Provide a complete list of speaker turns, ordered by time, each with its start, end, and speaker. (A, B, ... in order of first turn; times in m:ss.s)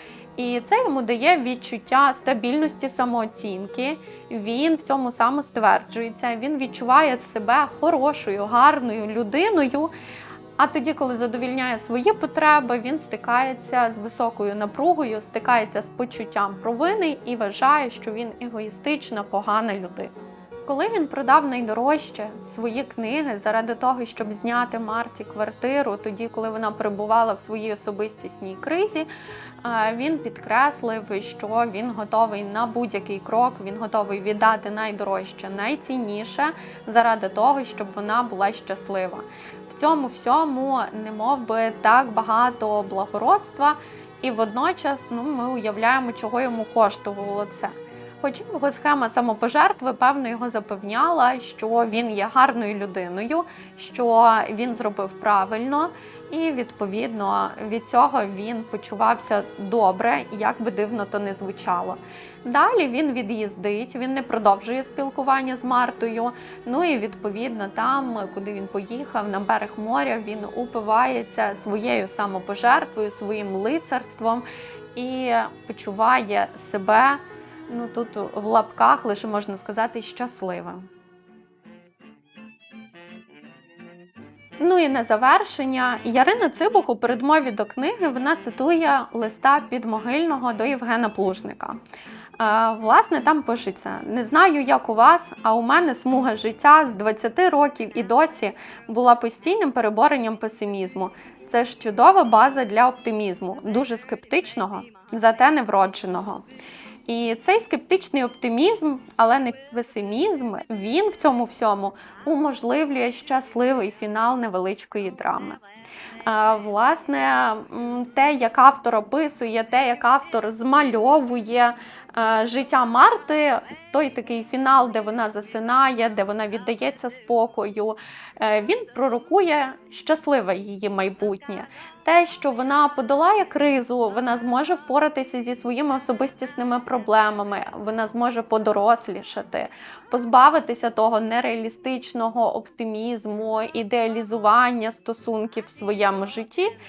0:00.4-0:09.9 A
0:10.6-0:20.1 A
0:20.7-0:29.1 A
0:29.6-1:20.9 A
1:24.6-1:31.8 A
1:32.4-1:46.4 A
1:47.1-1:55.6 A
1:56.2-2:26.7 A